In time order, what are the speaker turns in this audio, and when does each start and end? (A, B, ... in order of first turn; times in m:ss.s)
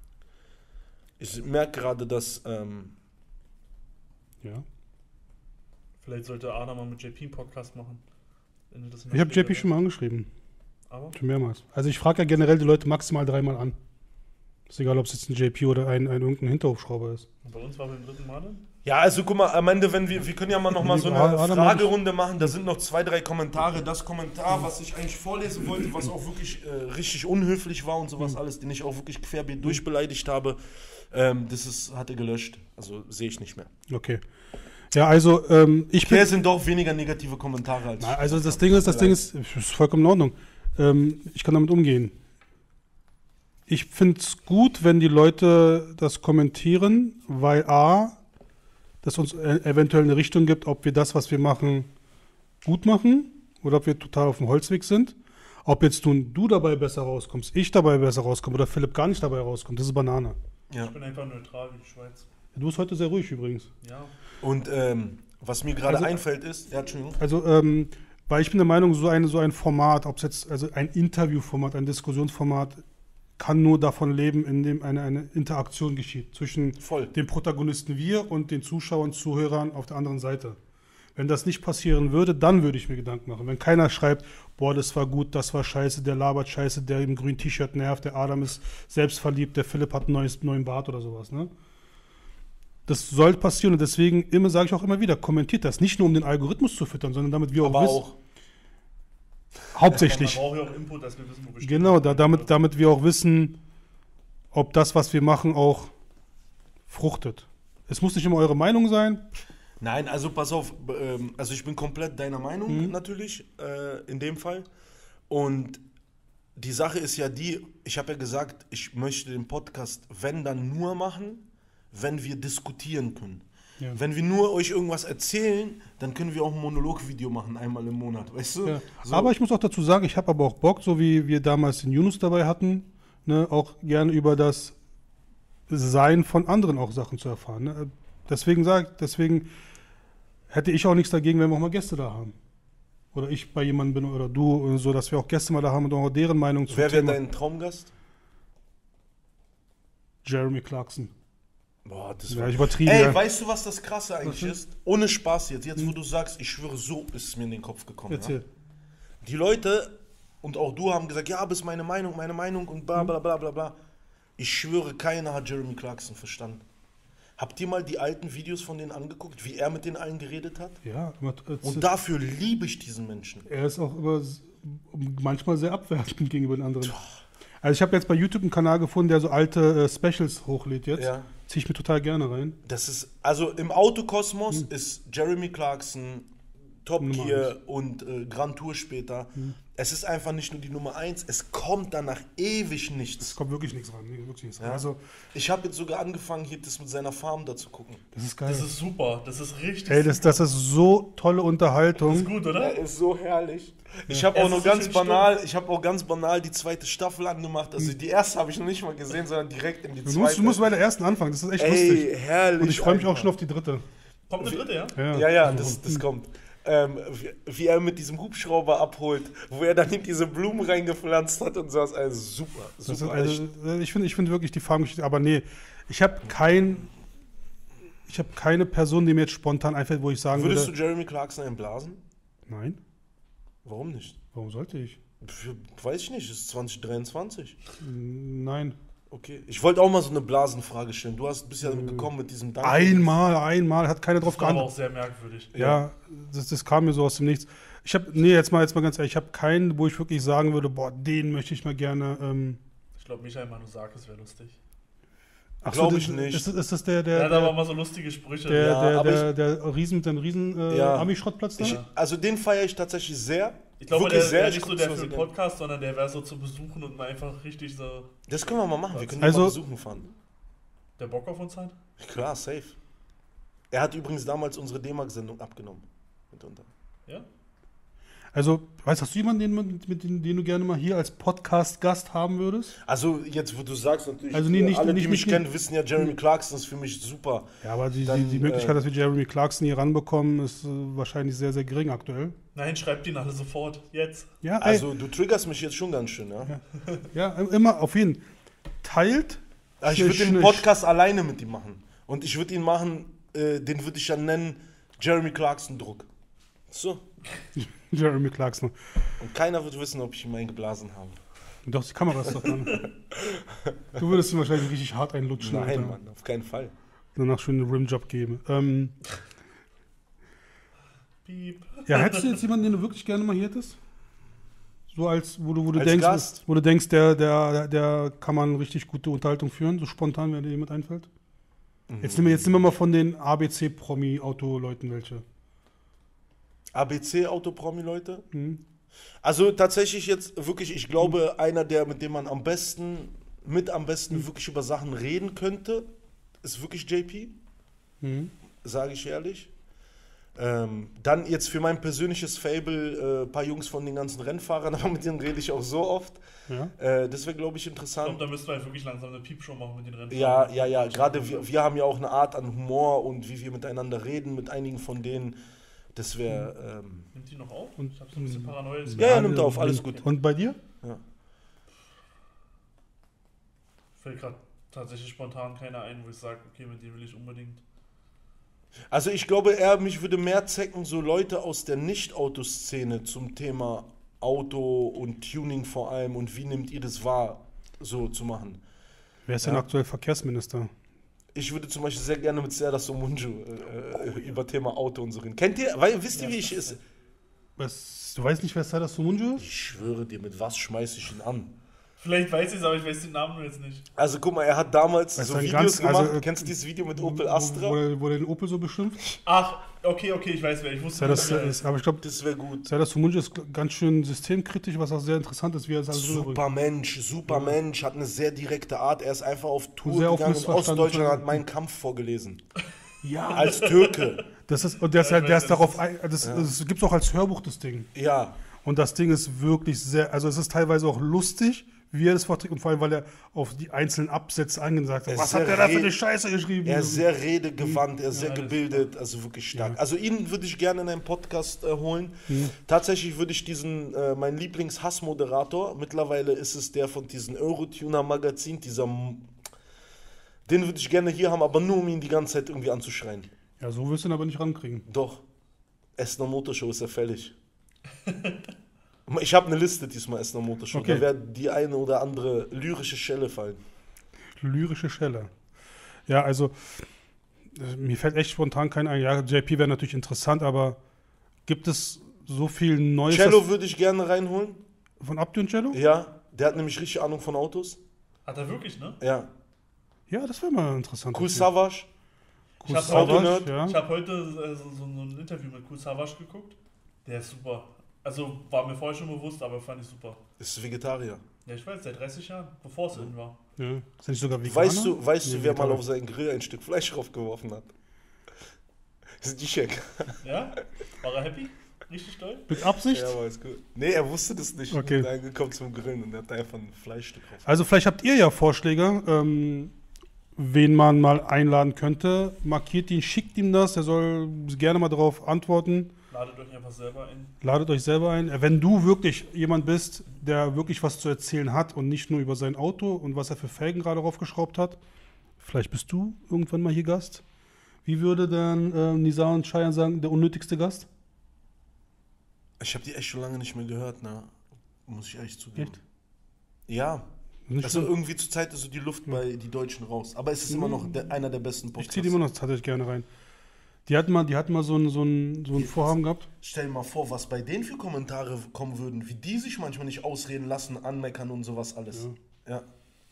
0:01.2-0:02.9 A
0:06.0-0:08.0 B
0:08.7-0:09.7 B
0:09.1-0:10.3 C
0:10.9-0:11.1 B
0:11.1-0:13.8 C
0:14.7-0:17.3 C
0:17.4-0:18.6 B
0:18.8-0:30.6 A
0:20.8-0:21.9 C
0:31.1-0:33.7 A
0:33.9-0:34.2 C
0:34.9-0:36.3 C
0:36.0-0:39.3 A
0:38.0-0:42.1 C
0:43.7-0:48.2 C
0:49.0-0:51.9 C
0:52.6-1:00.4 C
1:00.8-1:02.3 B
1:02.5-1:03.7 C
1:03.8-1:04.1 B
1:04.4-1:07.2 A
1:05.8-1:06.2 C
1:07.2-1:12.8 C
1:13.4-1:20.6 C
1:16.8-1:17.1 A
1:21.2-1:31.5 C
1:32.9-1:38.0 C
1:37.6-1:38.2 A
1:39.7-1:40.4 C
1:39.9-1:40.2 A
1:39.9-1:42.6 B
1:41.6-1:43.6 C
1:44.5-1:45.9 C
1:46.9-1:49.2 C
1:49.8-1:54.7 A
1:52.7-1:52.9 C
1:55.3-1:55.8 A
1:56.6-2:09.3 A
2:08.6-2:14.7 C
2:15.7-2:19.5 C
2:20.5-2:22.3 C
2:23.1-2:27.2 C
2:26.7-2:27.9 A
2:30.2-2:31.1 C
2:31.8-2:38.3 A
2:32.3-2:33.2 C
2:34.2-2:34.5 C
2:38.1-2:38.4 C
2:39.2-2:43.8 A
2:44.4-2:46.6 A
2:47.4-2:50.8 A
2:50.8-2:51.8 C
2:51.6-2:53.5 A
2:53.5-2:57.0 C
2:57.6-3:02.6 C
3:01.0-3:01.3 A
3:02.6-3:06.3 A
3:06.8-3:13.4 A
3:07.0-3:07.5 C
3:13.2-3:15.0 C
3:14.6-3:18.0 A
3:18.1-3:18.7 C
3:18.4-3:20.4 B
3:19.9-3:22.3 C
3:22.0-3:22.8 B
3:22.5-3:30.6 A
3:24.3-3:25.3 B
3:30.0-3:32.1 C
3:31.6-3:33.3 A
3:32.6-3:33.8 C
3:34.3-3:35.0 B
3:34.4-3:43.4 A
3:35.0-3:36.0 C
3:42.8-3:46.9 C
3:48.1-3:50.7 C
3:50.3-3:52.0 A
3:52.5-3:52.8 C
3:53.6-3:54.2 A
3:54.3-3:55.0 C
3:55.2-3:57.6 A
3:57.8-3:58.8 C
3:59.1-4:03.1 A
4:01.6-4:02.1 C
4:02.6-4:04.7 C
4:04.2-4:05.5 B
4:05.5-4:05.8 A
4:05.6-4:12.6 C
4:12.9-4:14.6 B
4:15.6-4:17.6 C
4:15.7-4:16.5 A
4:17.1-4:18.8 B
4:18.5-4:21.8 C
4:18.5-4:19.3 A
4:20.7-4:25.3 A
4:21.6-4:21.9 B
4:23.8-4:28.1 B
4:28.3-4:30.1 A
4:28.9-4:29.2 B
4:29.2-4:29.6 C
4:31.0-4:31.7 B
4:32.0-4:32.8 A
4:33.7-4:36.7 A
4:38.3-4:42.8 C
4:42.8-4:47.5 A
4:44.3-4:45.4 C
4:47.6-4:52.3 C
4:48.0-4:48.8 A
4:52.5-4:54.3 B
4:54.4-4:54.9 C
4:54.6-4:56.5 A
4:57.1-4:58.2 C
4:58.8-5:00.6 C
4:59.8-5:06.1 A
5:06.7-5:07.0 A
5:07.6-5:09.1 C
5:09.2-5:11.2 A
5:11.6-5:12.8 C
5:12.4-5:14.0 A
5:14.0-5:16.0 C
5:15.4-5:16.7 A
5:17.2-5:19.0 C
5:21.2-5:22.4 B
5:21.9-5:23.8 C
5:24.9-5:31.1 C
5:25.7-5:26.4 A
5:31.9-5:32.6 A
5:32.0-5:35.2 C
5:36.7-5:38.2 A
5:38.3-5:38.6 C
5:39.2-5:45.9 A
5:46.4-5:47.3 A
5:48.0-5:48.3 C
5:48.6-5:49.5 A
5:50.4-5:56.2 A
5:56.8-5:58.2 A
5:58.0-6:01.4 B
6:00.1-6:05.4 A
6:05.9-6:07.1 A
6:07.1-6:10.0 B
6:07.8-6:10.6 C
6:09.0-6:10.0 A
6:14.0-6:17.6 B
6:18.9-6:28.6 A
6:29.3-6:30.7 C
6:31.3-6:36.8 A
6:36.1-6:36.7 B
6:37.6-6:39.5 C
6:39.4-6:41.5 A
6:42.0-6:43.9 B
6:44.0-6:47.8 A
6:45.2-6:49.0 C
6:49.2-6:51.6 B
6:51.0-6:52.0 C
6:52.0-6:52.7 A
6:52.6-6:56.4 C
6:55.9-7:02.4 A
6:57.3-6:57.5 C
6:59.8-7:01.4 C
7:03.0-7:03.6 C
7:03.3-7:04.2 A
7:03.4-7:04.1 B
7:04.5-7:07.9 C
7:04.9-7:05.8 B
7:06.2-7:06.5 A
7:07.9-7:08.4 A
7:08.6-7:17.0 C
7:15.1-7:15.9 A
7:16.6-7:29.3 A
7:18.1-7:18.8 B
7:22.3-7:22.5 C
7:30.5-7:33.3 A
7:33.6-7:34.8 C
7:34.9-7:35.2 A
7:36.0-7:37.3 A
7:38.0-7:38.3 B
7:39.1-7:43.6 A
7:40.7-7:41.0 C
7:44.4-7:45.3 C
7:46.1-7:46.9 C
7:47.5-7:50.8 C
7:51.4-7:53.4 C
7:53.1-7:54.6 A
7:55.0-7:55.8 C
7:55.7-7:57.8 A
7:58.2-7:59.0 B
7:59.0-7:59.3 A
8:00.1-8:01.5 C
8:01.1-8:01.9 A
8:02.6-8:03.8 C
8:02.6-8:10.2 B
8:02.7-8:03.5 A
8:10.4-8:11.2 A
8:11.4-8:13.4 B
8:13.6-8:15.8 C
8:14.4-8:17.7 A
8:19.2-8:20.2 A
8:20.2-8:22.5 B
8:22.5-8:23.1 C
8:22.9-8:27.5 A
8:24.7-8:25.1 C
8:27.4-8:29.7 C
8:30.4-8:35.9 C
8:36.1-8:37.3 B
8:37.4-8:44.8 C
8:45.4-8:47.2 C
8:47.8-8:50.9 C
8:52.6-8:55.8 A
8:56.7-8:57.1 A
8:57.5-8:57.9 C
8:57.6-9:02.2 A
9:00.5-9:00.8 C
9:01.8-9:03.0 C
9:03.9-9:06.3 C
9:05.5-9:12.6 A